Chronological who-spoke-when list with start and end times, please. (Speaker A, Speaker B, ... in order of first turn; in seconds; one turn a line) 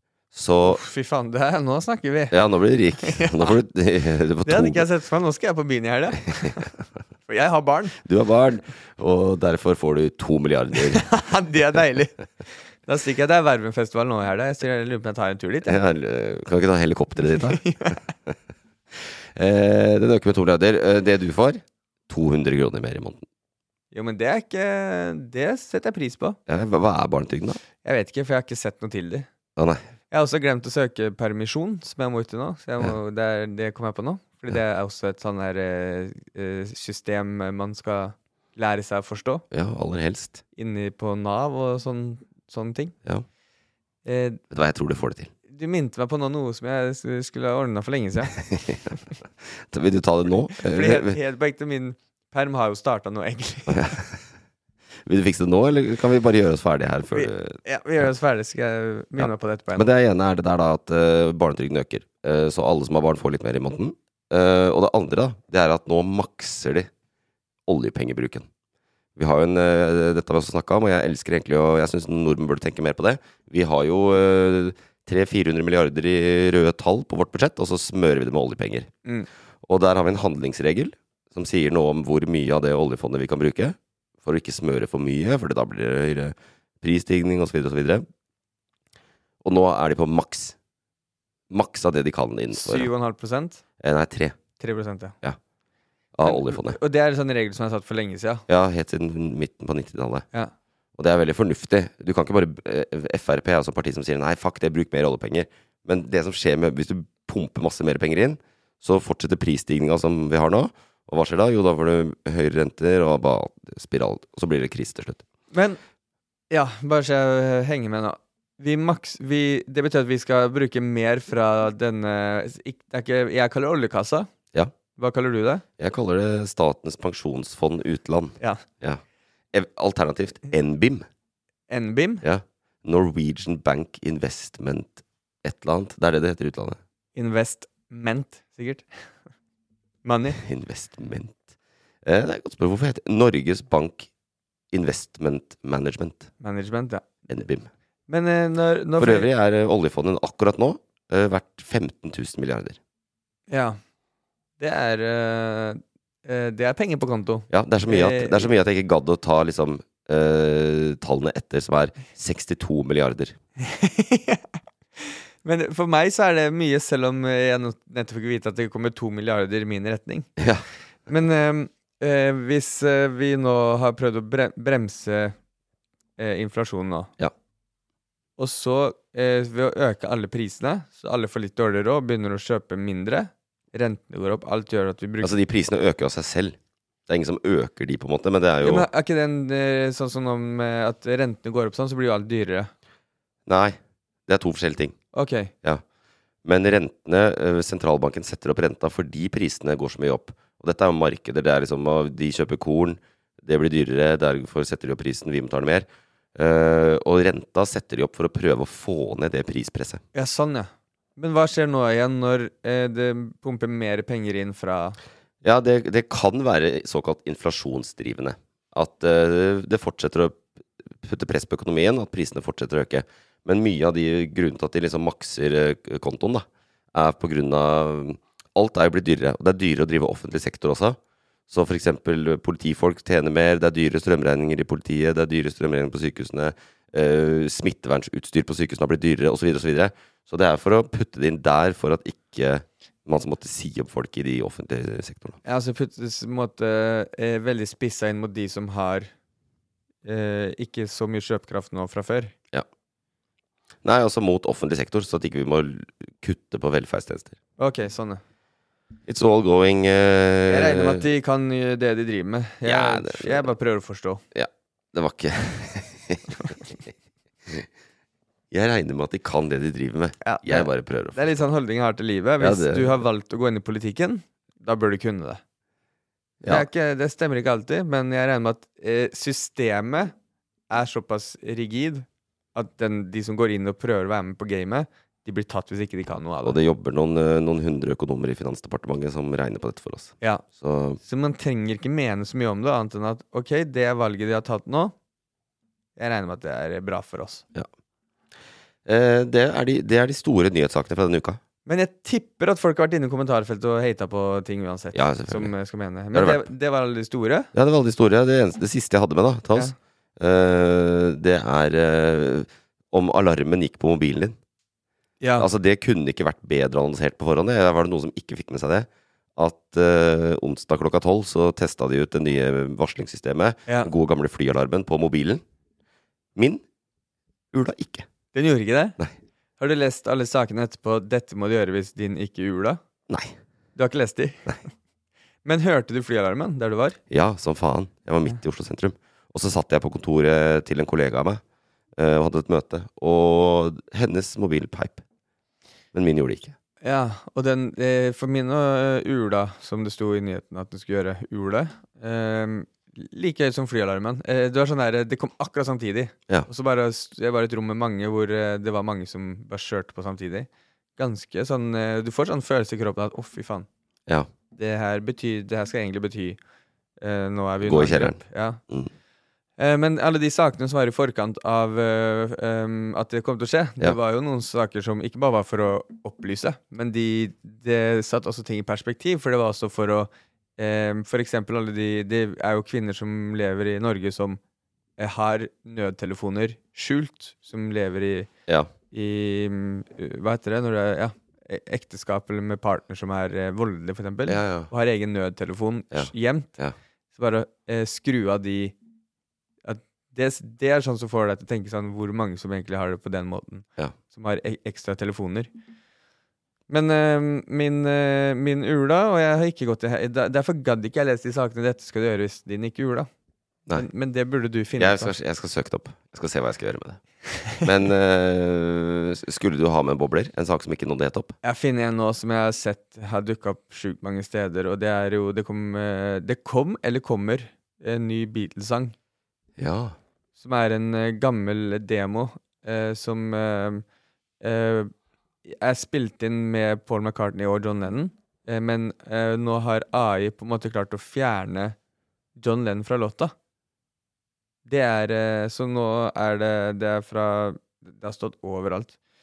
Speaker A: 0.3-0.8
Speaker B: 0.6-2.4
Speaker A: 2.3-4.8
Speaker B: 3.0-3.6
Speaker B: 4.4-6.7
Speaker B: 7.3-8.0
Speaker A: 8.0-11.1
Speaker B: 10.9-12.2
Speaker B: 12.9-15.8
Speaker A: 15.7-17.6
Speaker B: 17.4-18.0
Speaker A: 18.9-23.2
Speaker B: 23.9-26.4
Speaker A: 26.5-27.6
Speaker B: 27.8-29.3
Speaker B: 30.1-39.5
Speaker A: 39.5-40.4
Speaker B: 40.6-43.0
Speaker B: 44.0-44.4
Speaker A: 44.5-45.3
Speaker B: 45.5-48.4
Speaker A: 48.4-48.9
Speaker A: 49.5-51.2
Speaker B: 50.6-54.0
Speaker A: 53.7-54.2
Speaker A: 55.1-57.6
Speaker B: 57.1-59.9
Speaker A: 59.2-66.9
Speaker A: 67.7-68.5
Speaker A: 69.2-78.9
Speaker A: 79.6-88.0
Speaker A: 89.4-90.6
Speaker A: 91.5-92.9
Speaker B: 92.5-93.6
Speaker A: 93.8-94.4
Speaker B: 94.6-95.2
Speaker A: 96.2-96.8
Speaker B: 96.2-98.5
Speaker A: 98.5-100.3
Speaker A: 101.0-115.2
Speaker B: 115.5-115.8
Speaker B: 116.5-124.3
Speaker B: 125.0-125.6
Speaker A: 125.8-129.0
Speaker A: 129.5-131.1
Speaker B: 131.7-132.2
Speaker A: 132.2-136.8
Speaker B: 137.2-138.9
Speaker B: 140.1-140.4
Speaker A: 140.4-141.4
Speaker A: 142.1-144.1
Speaker A: 144.7-146.3
Speaker B: 146.4-147.1
Speaker A: 147.3-147.7
Speaker B: 148.1-149.3
Speaker A: 149.0-152.8
Speaker B: 153.5-153.8
Speaker B: 154.6-158.5
Speaker A: 157.5-163.4
Speaker B: 163.6-170.3
Speaker A: 170.4-170.7
Speaker B: 171.1-175.4
Speaker B: 176.2-177.1
Speaker B: 178.4-185.3
Speaker A: 185.2-186.6
Speaker A: 187.1-188.9
Speaker B: 188.6-192.7
Speaker A: 193.5-195.0
Speaker B: 195.1-195.5
Speaker A: 196.4-210.0
Speaker B: 210.1-215.0
Speaker A: 215.4-231.0
Speaker A: 231.5-245.4
Speaker B: 245.4-249.1
Speaker B: 250.1-252.3
Speaker A: 253.8-257.4
Speaker B: 257.6-258.2
Speaker A: 259.1-261.0
Speaker B: 260.5-264.2
Speaker A: 262.6-263.5
Speaker A: 264.3-266.9
Speaker A: 268.5-271.4
Speaker B: 270.2-275.4
Speaker A: 272.4-273.0
Speaker A: 276.4-276.7
Speaker B: 276.4-280.1
Speaker B: 280.7-286.6
Speaker A: 286.4-291.0
Speaker B: 291.0-294.9
Speaker B: 296.0-297.4
Speaker A: 298.9-301.4
Speaker B: 301.7-307.5
Speaker A: 304.9-305.5
Speaker A: 306.1-306.5
Speaker A: 307.5-314.4
Speaker B: 315.2-315.5
Speaker A: 315.4-325.4
Speaker A: 326.4-326.6
Speaker A: 327.5-328.1
Speaker B: 328.3-329.0
Speaker B: 329.6-332.8
Speaker A: 333.1-333.4
Speaker B: 333.8-334.7
Speaker B: 335.4-337.0
Speaker A: 337.1-341.4
Speaker A: 342.0-345.0
Speaker A: 345.9-346.6
Speaker B: 346.8-363.7
Speaker B: 364.5-366.4
Speaker B: 367.0-368.6
Speaker A: 367.6-368.9
Speaker B: 369.6-384.4
Speaker B: 385.0-388.3
Speaker B: 388.9-396.6
Speaker A: 394.3-394.7
Speaker A: 395.9-396.8
Speaker B: 397.1-398.8
Speaker B: 399.6-405.5
Speaker B: 406.7-413.1
Speaker B: 413.7-415.1
Speaker A: 414.8-417.0
Speaker A: 417.6-421.4
Speaker B: 421.4-428.9
Speaker A: 429.6-430.0
Speaker B: 430.4-433.8
Speaker B: 434.4-434.9
Speaker B: 435.4-441.8
Speaker B: 442.4-443.3
Speaker B: 444.7-449.0